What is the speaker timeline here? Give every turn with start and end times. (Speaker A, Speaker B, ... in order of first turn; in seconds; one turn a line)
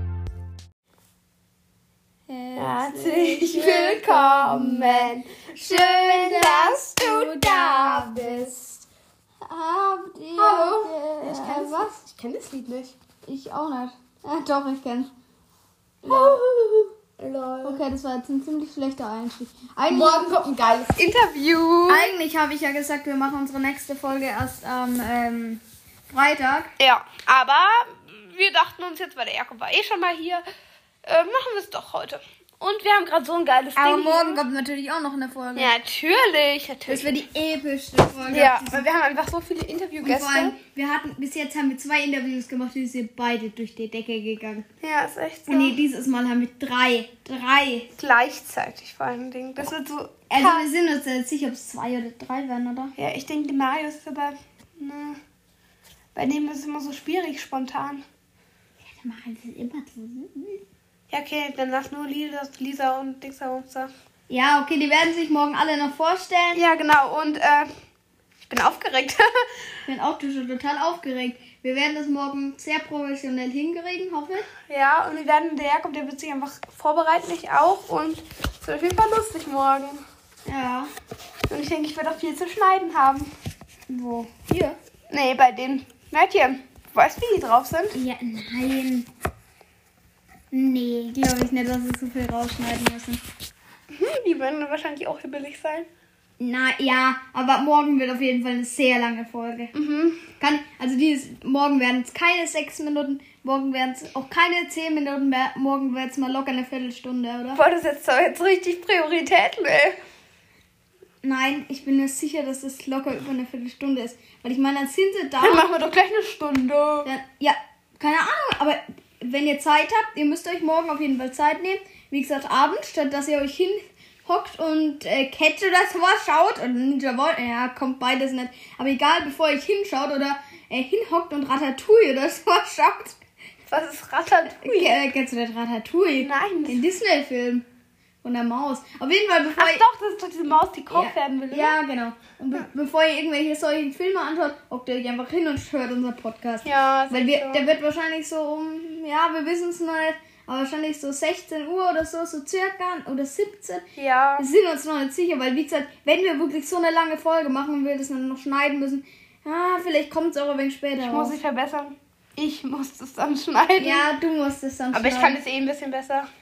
Speaker A: 2.3-8.5
Speaker B: 2.5-8.8
Speaker A: 9.5-11.9
Speaker B: 10.3-12.9
Speaker A: 13.2-15.1
Speaker B: 16.0-17.8
Speaker A: 16.0-16.4
Speaker A: 17.6-20.8
Speaker B: 19.9-22.1
Speaker A: 21.9-26.7
Speaker B: 26.8-30.4
Speaker B: 31.1-34.4
Speaker A: 33.8-35.7
Speaker B: 35.5-37.2
Speaker A: 36.9-38.8
Speaker B: 38.3-40.6
Speaker A: 40.0-44.6
Speaker B: 44.8-45.8
Speaker A: 45.5-47.9
Speaker B: 48.0-50.7
Speaker A: 50.3-52.9
Speaker B: 53.0-55.2
Speaker B: 56.1-58.0
Speaker A: 58.8-60.6
Speaker B: 61.1-63.9
Speaker A: 64.3-66.6
Speaker B: 66.5-67.7
Speaker B: 68.5-69.3
Speaker A: 69.9-74.5
Speaker B: 74.7-80.0
Speaker A: 80.5-80.9
Speaker B: 81.5-83.3
Speaker A: 83.9-84.8
Speaker B: 85.1-88.0
Speaker A: 87.9-89.1
Speaker A: 90.5-93.2
Speaker B: 93.9-95.9
Speaker A: 96.4-99.7
Speaker B: 99.7-100.2
Speaker A: 100.4-107.6
Speaker B: 107.5-110.0
Speaker A: 111.2-115.6
Speaker B: 115.4-117.1
Speaker A: 117.0-133.2
Speaker B: 133.7-135.0
Speaker A: 134.5-137.6
Speaker B: 136.2-136.8
Speaker A: 138.2-139.8
Speaker B: 139.6-141.8
Speaker A: 140.9-153.8
Speaker B: 146.6-147.7
Speaker B: 153.9-154.5
Speaker A: 154.4-161.4
Speaker B: 161.0-164.1
Speaker A: 163.8-165.4
Speaker B: 164.9-166.3